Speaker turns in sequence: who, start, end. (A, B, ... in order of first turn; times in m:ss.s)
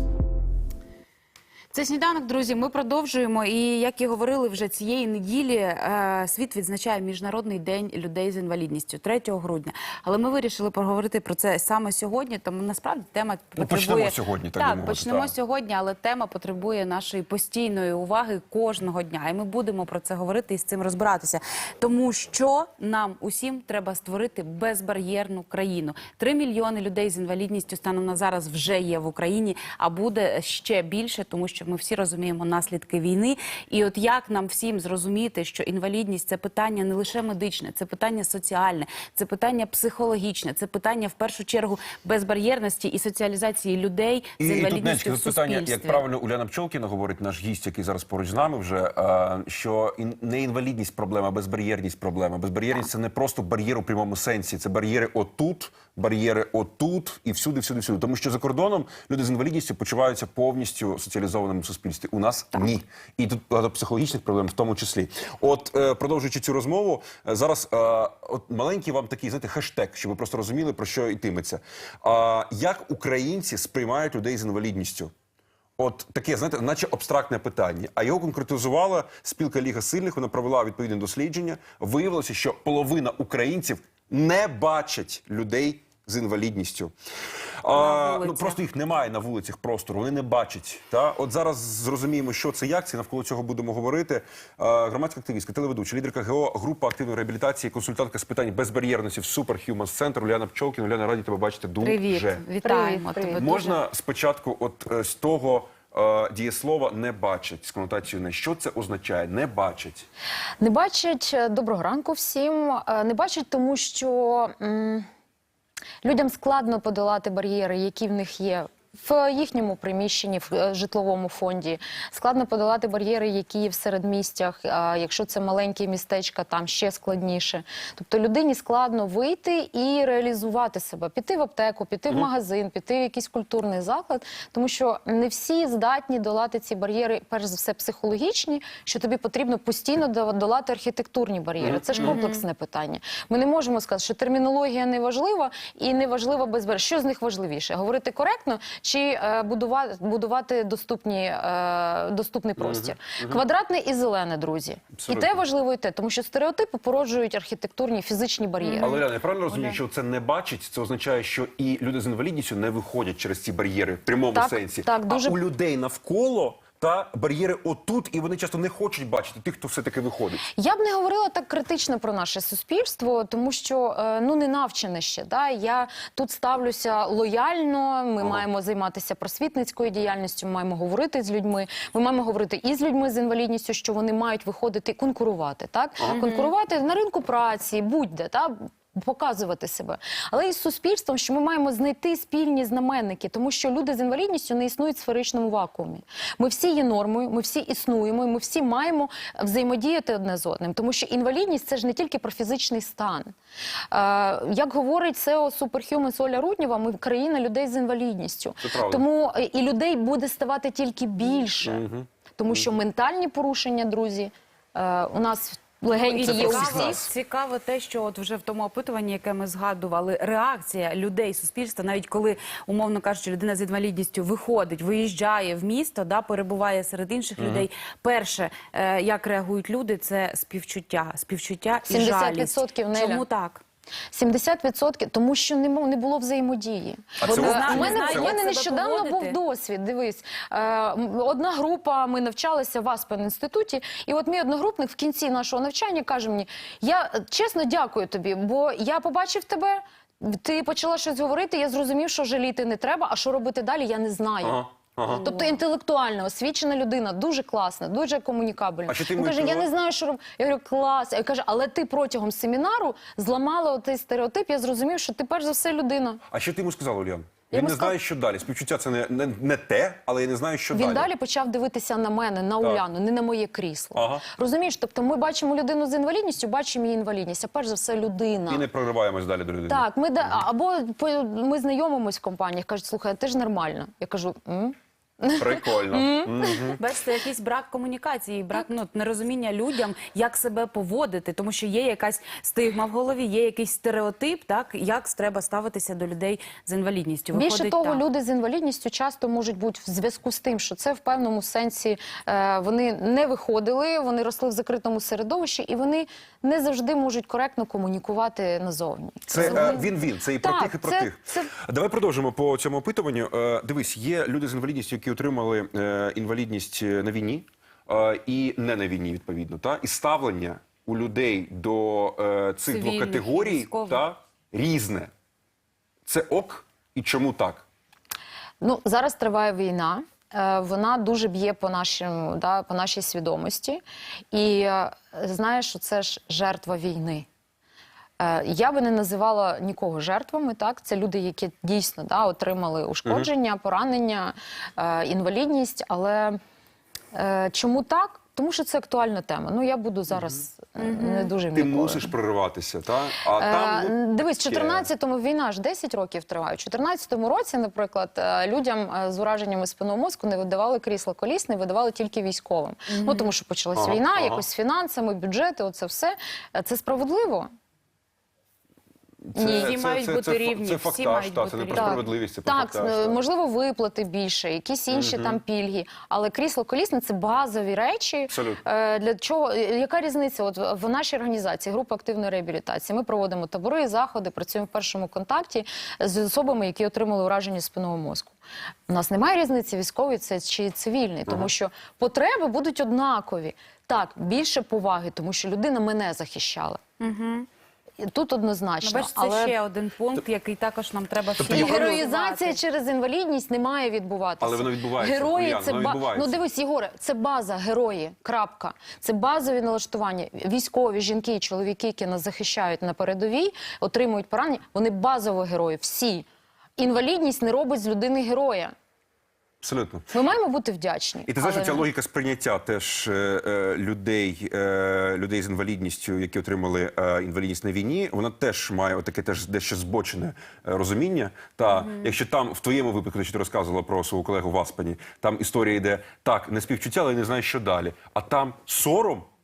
0:01.7-0:46.0 A
0:13.6-0:15.3 B
0:44.4-1:15.1 B
1:15.8-1:26.9 B
1:27.6-1:42.4 B
1:27.7-1:28.6 A
1:41.8-1:43.8 A
1:42.6-1:43.5 C
1:43.4-1:50.0 B
1:50.6-1:55.0 C
1:56.0-2:39.0 C
2:21.6-2:22.2 B
2:21.9-2:22.4 A
2:32.6-2:33.4 B
2:34.9-2:35.4 B
2:38.6-2:39.8 A
2:38.8-2:50.4 B
2:44.3-2:45.4 C
2:50.5-3:23.3 C
2:58.2-2:58.4 B
3:06.0-3:06.2 B
3:06.1-3:06.5 A
3:23.9-3:31.8 C
3:28.6-3:29.0 B
3:31.6-3:32.7 B
3:32.4-3:37.0 C
3:36.0-3:53.6 A
3:36.2-3:37.1 B
3:47.4-3:47.6 B
3:51.9-3:53.2 C
3:54.1-4:26.2 C
3:57.2-3:58.4 B
3:57.2-3:59.3 A
4:14.4-4:15.3 B
4:15.3-4:15.5 A
4:18.8-4:19.7 B
4:26.3-4:31.1 B
4:27.5-4:27.9 C
4:30.7-4:38.7 C
4:33.9-4:34.2 B
4:38.5-4:40.4 B
4:39.7-4:46.8 C
4:45.4-4:46.8 B
4:46.7-4:58.0 A
4:57.3-5:11.5 C
5:09.3-5:25.1 B
5:09.4-5:09.8 A
5:22.7-5:24.0 A
5:26.0-5:27.6 B
5:28.6-5:37.3 C
5:38.2-5:46.4 C
5:47.1-5:52.1 C
5:50.8-5:51.3 A
5:51.5-5:54.9 B
5:53.3-6:07.5 C
6:02.9-6:03.3 A
6:03.8-6:04.4 B
6:09.2-6:13.2 B
6:09.4-6:09.7 C
6:09.4-6:12.1 A
6:11.7-6:36.8 C
6:14.9-6:15.4 B
6:18.3-6:18.6 B
6:37.0-6:37.5 A
6:38.0-6:39.5 C
6:38.8-6:42.6 A
6:41.4-6:41.9 B
6:41.4-6:56.2 C
6:44.4-6:46.4 B
6:56.8-6:58.7 C
6:59.6-7:00.1 B
7:00.1-7:01.9 C
7:01.2-7:19.3 B
7:11.7-7:12.0 A